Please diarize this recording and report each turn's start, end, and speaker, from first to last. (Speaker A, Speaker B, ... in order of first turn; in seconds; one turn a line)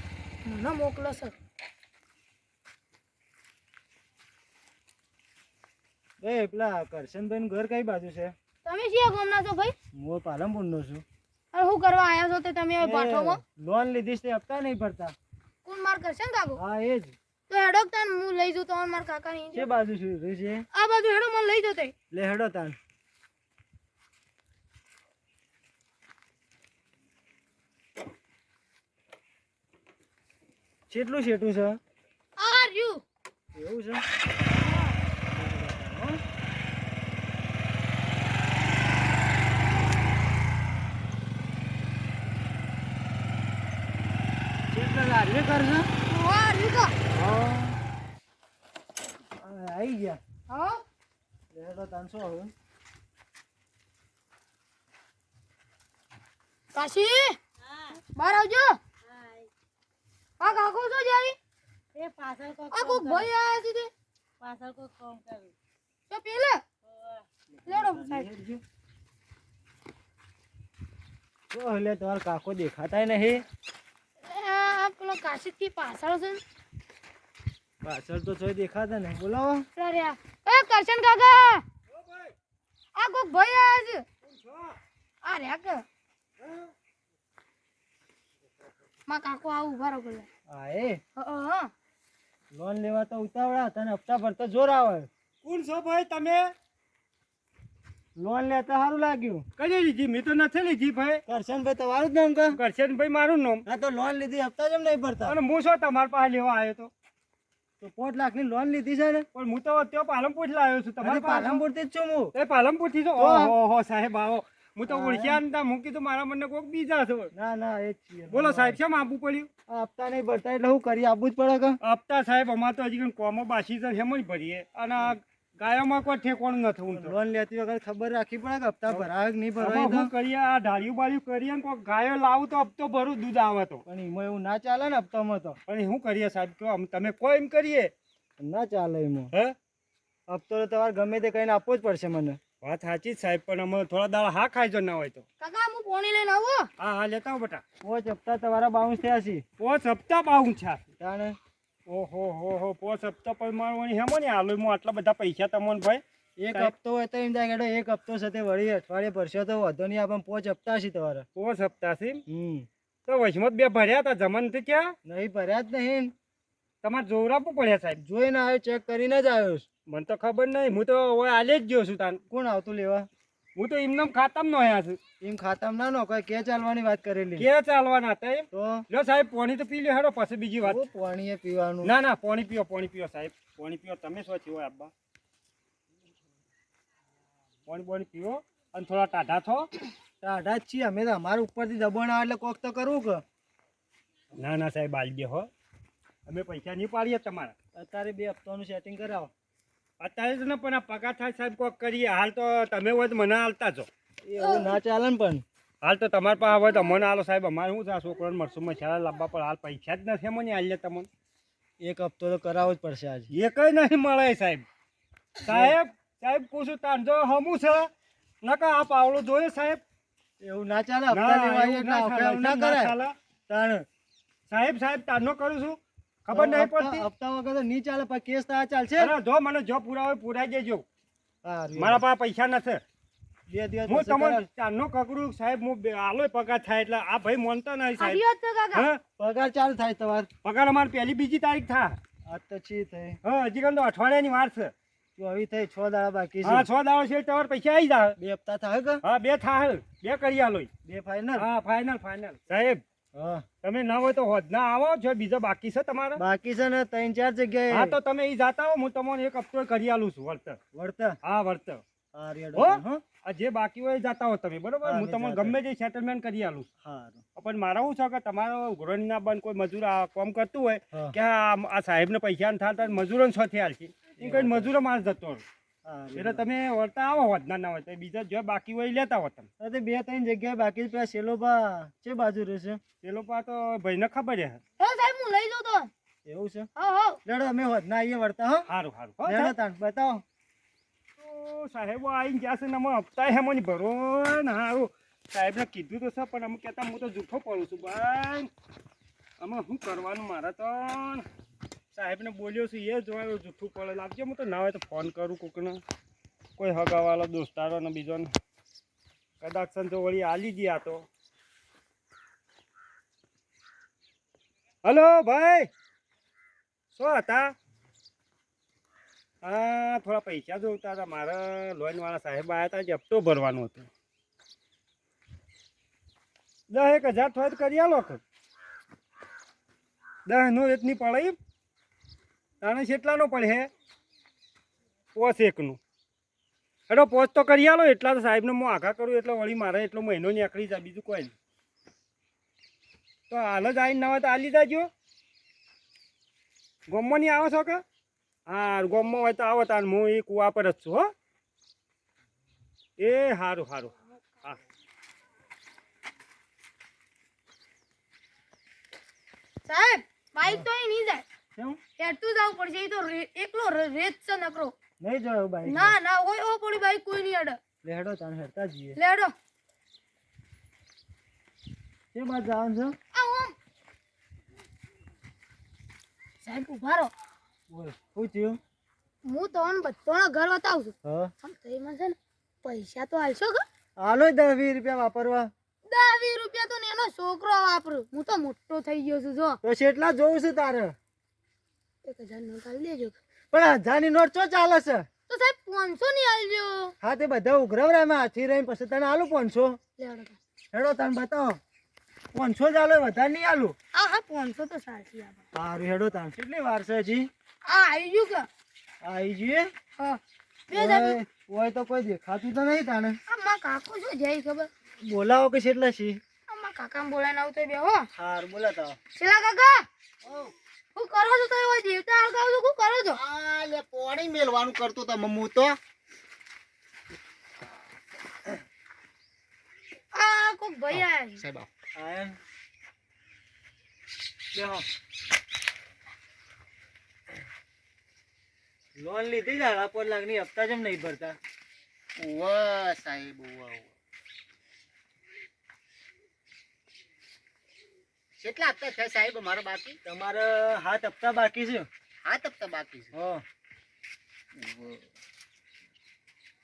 Speaker A: 0.5-1.4
Speaker B: 6.2-8.3
Speaker A: 8.7-9.8
Speaker B: 10.0-11.0
Speaker A: 11.5-13.4
Speaker B: 12.8-15.2
Speaker A: 15.7-16.6
Speaker B: 16.6-17.2
Speaker A: 17.5-19.7
Speaker B: 19.5-20.6
Speaker A: 20.7-21.9
Speaker B: 22.1-22.8
Speaker B: 30.9-31.8
Speaker A: 32.4-33.0
Speaker B: 33.5-34.0
Speaker B: 35.3-36.2
Speaker B: 44.7-45.9
Speaker A: 46.1-47.0
Speaker B: 47.1-47.8
Speaker B: 49.4-50.2
Speaker A: 50.5-50.8
Speaker B: 51.5-52.5
Speaker A: 56.7-57.4
Speaker A: 58.0-58.8
Speaker C: 59.1-59.5
Speaker A: 60.4-61.4
Speaker C: 62.0-63.2
Speaker A: 62.7-63.9
Speaker C: 64.4-65.5
Speaker A: 66.1-66.6
Speaker B: 67.6-68.6
Speaker A: 67.7-68.3
Speaker B: 71.5-73.4
Speaker A: 74.3-76.4
Speaker B: 77.8-79.7
Speaker A: 79.8-81.6
Speaker D: 81.9-82.3
Speaker A: 83.0-84.0
Speaker D: 84.2-84.8
Speaker A: 85.2-85.8
Speaker D: 86.4-86.7
Speaker A: 89.1-90.3
Speaker B: 90.5-91.0
Speaker A: 91.2-91.7
Speaker B: 92.5-95.1
Speaker D: 95.4-96.5
Speaker B: 98.2-99.5
Speaker D: 99.6-101.2
Speaker B: 101.3-102.6
Speaker D: 102.5-103.6
Speaker B: 103.7-105.4
Speaker D: 105.3-106.9
Speaker B: 107.8-109.3
Speaker D: 109.3-111.6
Speaker B: 111.0-112.3
Speaker D: 112.3-117.3
Speaker B: 113.2-113.5
Speaker B: 114.9-115.4
Speaker B: 117.3-118.8
Speaker D: 118.3-119.5
Speaker B: 119.7-121.8
Speaker D: 121.8-127.1
Speaker B: 126.9-130.1
Speaker D: 129.6-133.8
Speaker B: 133.9-135.6
Speaker D: 135.7-137.9
Speaker B: 138.4-139.3
Speaker B: 140.3-142.4
Speaker D: 142.6-145.2
Speaker A: 145.4-146.7
Speaker D: 146.8-147.6
Speaker B: 147.8-149.4
Speaker D: 149.6-150.8
Speaker B: 151.0-151.4
Speaker D: 151.9-156.0
Speaker B: 156.4-161.3
Speaker D: 161.4-162.2
Speaker B: 162.3-162.7
Speaker D: 163.1-164.9
Speaker B: 165.1-166.1
Speaker D: 166.8-168.0
Speaker B: 168.0-169.7
Speaker D: 169.9-172.2
Speaker B: 172.3-173.1
Speaker D: 173.6-175.0
Speaker B: 175.2-177.5
Speaker D: 177.4-180.8
Speaker B: 178.5-178.8
Speaker B: 180.6-181.9
Speaker D: 181.8-184.9
Speaker D: 187.7-189.7
Speaker B: 190.2-193.2
Speaker D: 194.4-195.5
Speaker D: 196.3-197.5
Speaker B: 197.8-199.3
Speaker D: 200.0-203.9
Speaker B: 204.3-205.4
Speaker A: 204.4-204.7
Speaker D: 205.8-211.1
Speaker B: 211.8-213.3
Speaker D: 213.3-214.6
Speaker D: 215.4-217.9
Speaker B: 215.5-215.7
Speaker D: 218.4-219.8
Speaker B: 220.4-222.9
Speaker D: 221.1-223.2
Speaker B: 223.5-223.9
Speaker D: 224.5-227.1
Speaker B: 226.3-229.1
Speaker D: 229.0-230.8
Speaker B: 231.4-232.0
Speaker D: 231.8-232.8
Speaker B: 233.5-234.4
Speaker D: 233.9-238.2
Speaker A: 238.0-238.9
Speaker D: 238.7-239.0
Speaker B: 239.2-240.3
Speaker D: 240.4-242.0
Speaker B: 242.3-243.2
Speaker D: 243.2-244.7
Speaker B: 245.2-246.7
Speaker D: 246.4-248.2
Speaker B: 248.2-249.0
Speaker D: 249.0-250.7
Speaker B: 250.8-251.5
Speaker D: 251.4-252.8
Speaker B: 253.2-253.4
Speaker D: 253.6-256.2
Speaker B: 256.2-258.0
Speaker D: 257.7-260.6
Speaker B: 260.7-261.2
Speaker D: 261.2-261.8
Speaker B: 262.1-263.0
Speaker D: 262.6-266.7
Speaker B: 264.8-265.6
Speaker B: 266.8-267.2
Speaker D: 267.4-275.4
Speaker B: 274.2-274.7
Speaker B: 275.9-276.4
Speaker D: 276.2-279.5
Speaker B: 279.6-282.8
Speaker D: 283.0-284.6
Speaker A: 284.8-285.9
Speaker B: 286.3-286.7
Speaker A: 286.8-287.2
Speaker B: 287.2-288.7
Speaker D: 288.7-289.5
Speaker B: 289.2-290.2
Speaker D: 291.2-298.5
Speaker D: 299.4-301.2
Speaker D: 301.9-305.8
Speaker D: 306.6-308.3
Speaker D: 309.4-311.1
Speaker D: 314.9-315.7
Speaker D: 317.0-317.5
Speaker D: 319.4-323.9
Speaker D: 326.7-328.2
Speaker D: 330.3-331.4
Speaker D: 332.6-333.7
Speaker D: 335.1-335.8
Speaker D: 336.9-341.3
Speaker D: 343.3-344.9
Speaker D: 346.9-347.8
Speaker D: 348.5-351.1
Speaker D: 353.0-354.6
Speaker A: 359.7-361.2
Speaker A: 362.0-364.7
Speaker B: 365.0-366.0
Speaker A: 365.7-367.6
Speaker B: 367.8-369.0
Speaker A: 369.0-369.3
Speaker B: 372.1-373.0
Speaker A: 373.1-373.6
Speaker A: 376.4-377.1
Speaker B: 377.7-378.6
Speaker A: 379.3-383.6
Speaker B: 381.1-381.3
Speaker B: 384.0-385.5
Speaker A: 385.9-389.6
Speaker B: 389.6-390.9
Speaker A: 392.1-393.2
Speaker B: 393.5-395.1
Speaker A: 395.3-396.9
Speaker B: 397.0-399.8
Speaker A: 400.0-400.4
Speaker B: 400.7-401.6
Speaker B: 402.3-403.8
Speaker A: 403.9-405.4
Speaker B: 405.5-407.3
Speaker A: 407.7-408.5
Speaker B: 409.0-409.7
Speaker A: 410.0-411.2
Speaker B: 410.7-413.2
Speaker A: 413.3-414.7
Speaker B: 415.1-416.2
Speaker A: 416.5-418.1
Speaker B: 418.2-419.0
Speaker A: 419.2-419.9
Speaker A: 420.9-423.2
Speaker E: 423.1-425.8
Speaker A: 430.1-431.4
Speaker E: 430.9-431.7
Speaker B: 432.0-432.4
Speaker B: 434.5-434.8
Speaker B: 439.0-441.4
Speaker E: 442.2-443.9
Speaker E: 448.4-450.0
Speaker B: 450.1-451.9
Speaker E: 452.2-453.1
Speaker B: 453.1-453.4
Speaker E: 454.6-454.9